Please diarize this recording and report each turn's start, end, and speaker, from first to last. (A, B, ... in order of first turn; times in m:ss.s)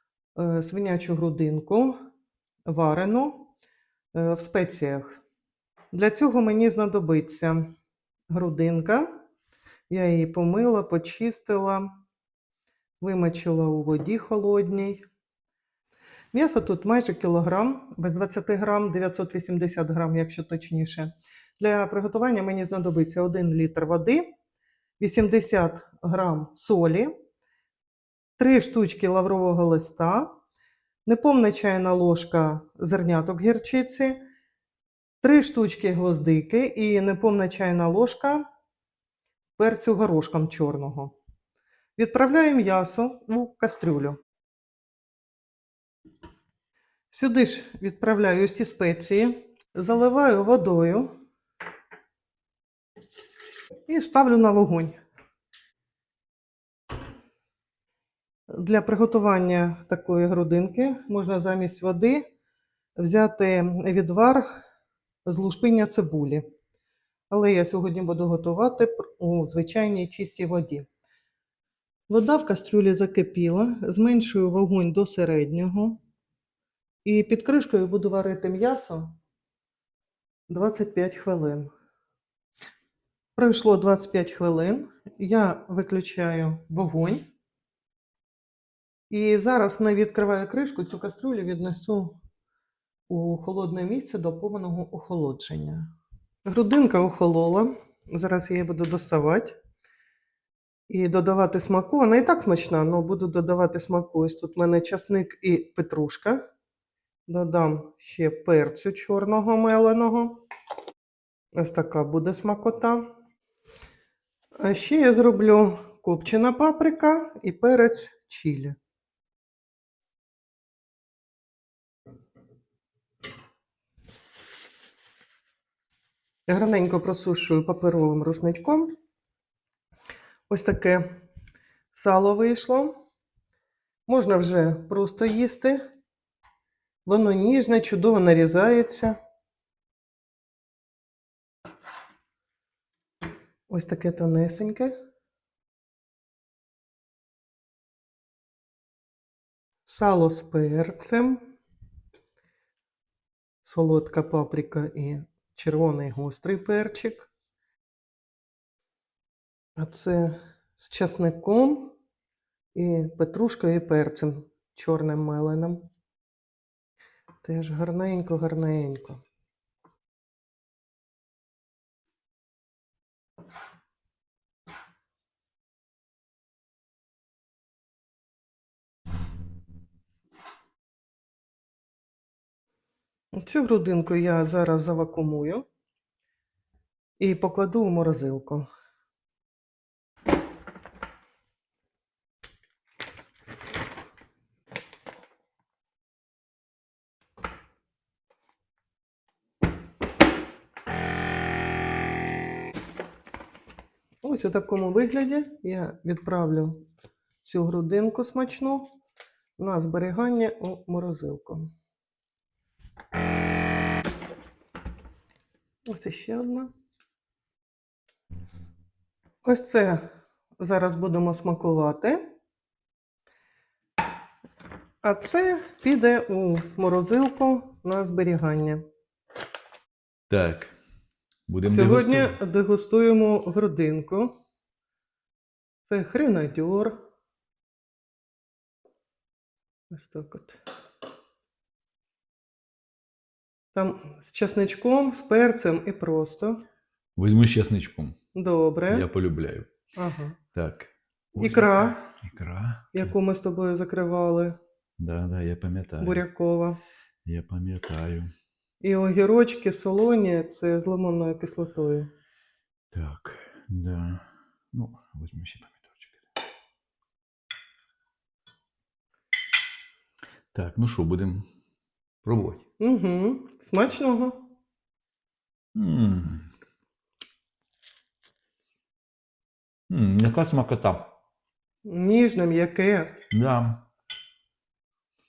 0:00.4-0:02.0 A
0:02.7-0:03.5 A
0:04.1-0:05.2 A
0:05.9-0:07.7 A
0:08.3-0:09.1 A
0:09.9-0:11.9 A
0:13.0-0:15.1 A
0:16.3-0:24.3 A
0:25.0-0:27.1 A
0:28.4-0:30.3 A
0:31.0-0:34.2 A
0:35.2-0:38.4 A
0:39.6-0:41.2 A
0:42.0-0:44.2 A
0:47.1-0:51.1 A
0:53.9-0:55.0 A
0:58.5-1:02.2 A
1:03.0-1:04.5 A
1:05.2-1:06.4 A
1:07.3-1:10.9 A
1:12.1-1:16.0 A
1:17.0-1:19.2 A
1:20.5-1:21.7 A
1:23.4-1:27.2 A
1:29.1-1:32.2 A
1:33.1-1:35.9 A
1:36.5-1:39.6 A
1:40.9-1:46.4 A
1:47.3-1:50.4 A
1:51.6-1:53.1 A
1:54.6-1:58.8 A
2:06.5-2:08.9 A
2:10.5-2:11.2 A
2:11.9-2:13.0 A
2:14.1-2:15.8 A
2:17.0-2:19.2 A
2:23.7-2:25.0 A
2:29.9-2:31.4 A
2:33.6-2:37.3 A
2:39.8-2:42.0 A
2:42.8-2:45.9 A
2:47.4-2:49.2 A
3:03.3-3:05.7 A
3:07.2-3:08.7 A
3:24.2-3:26.9 A
3:27.4-3:28.9 A
3:29.6-3:31.7 A
3:35.9-3:36.7 A
3:39.4-3:40.1 A
3:40.6-3:42.3 A
3:45.0-3:48.8 A
3:50.3-3:50.7 B
3:51.5-3:52.4 B
3:51.7-3:54.3 A
3:55.9-3:57.0 A
3:59.9-4:00.6 A
4:03.7-4:06.6 A
4:07.2-4:08.2 B
4:08.3-4:09.1 A
4:08.9-4:09.7 B
4:10.0-4:10.4 A
4:10.6-4:13.1 B
4:11.4-4:12.0 A
4:12.9-4:14.6 A
4:15.0-4:16.2 B
4:16.0-4:16.8 A
4:17.2-4:18.3 B
4:18.8-4:22.1 A
4:22.9-4:26.2 B
4:30.5-4:31.5 B
4:32.2-4:32.6 B
4:32.8-4:34.5 A
4:35.7-4:36.5 B
4:39.9-4:41.1 B
4:41.8-4:43.2 A
4:43.3-4:43.8 B